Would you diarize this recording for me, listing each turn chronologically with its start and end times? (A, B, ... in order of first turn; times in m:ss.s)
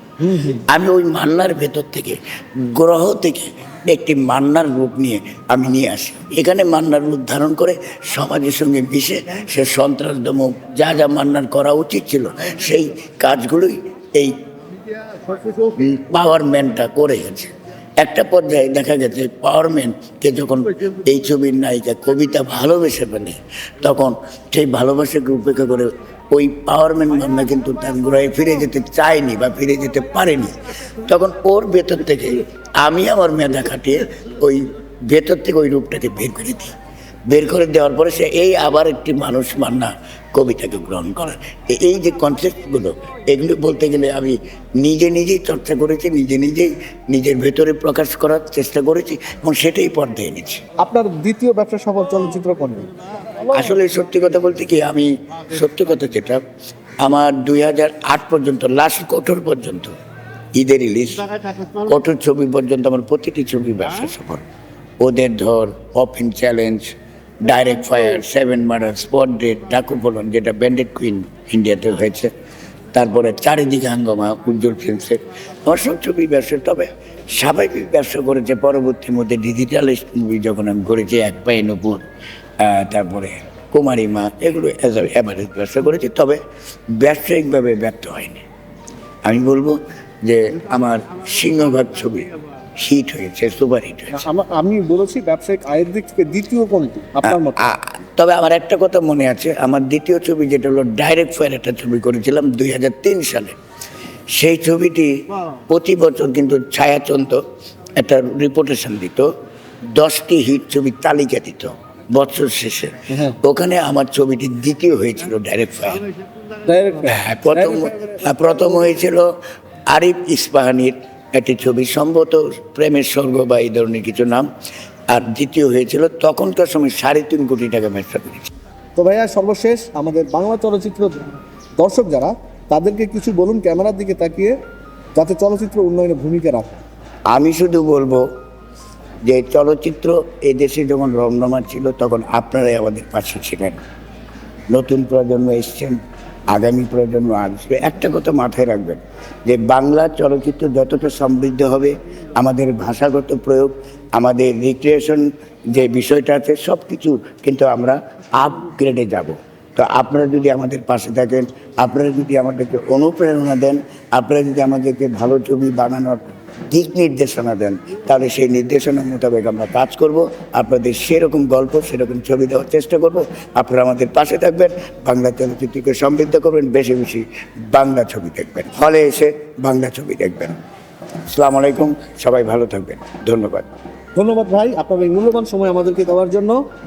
0:00.4-0:14.4 A
0:15.6-0:36.7 A
0:37.3-0:50.6 A
0:50.8-0:52.9 B
0:53.5-0:56.4 A
0:57.0-0:59.9 A
1:00.6-1:04.4 A
1:05.0-1:12.3 A
1:12.9-1:22.0 A
1:22.6-1:26.4 A
1:26.9-1:28.4 A
1:29.2-1:34.2 A
1:34.1-1:37.6 B
1:37.2-1:43.6 A
1:44.4-1:45.1 A
1:45.7-1:47.4 A
1:48.0-1:49.3 A
1:49.9-1:56.0 A
1:56.6-1:57.9 B
1:57.0-1:59.3 A
1:59.9-2:04.5 A
2:05.1-2:08.5 A
2:09.0-2:11.2 B
2:11.8-2:14.6 B
2:15.2-2:16.8 B
2:17.3-2:18.2 A
2:19.2-2:23.8 A
2:24.7-2:26.0 A
2:26.5-3:00.6 A
3:01.3-3:03.7 A
3:04.2-3:06.6 B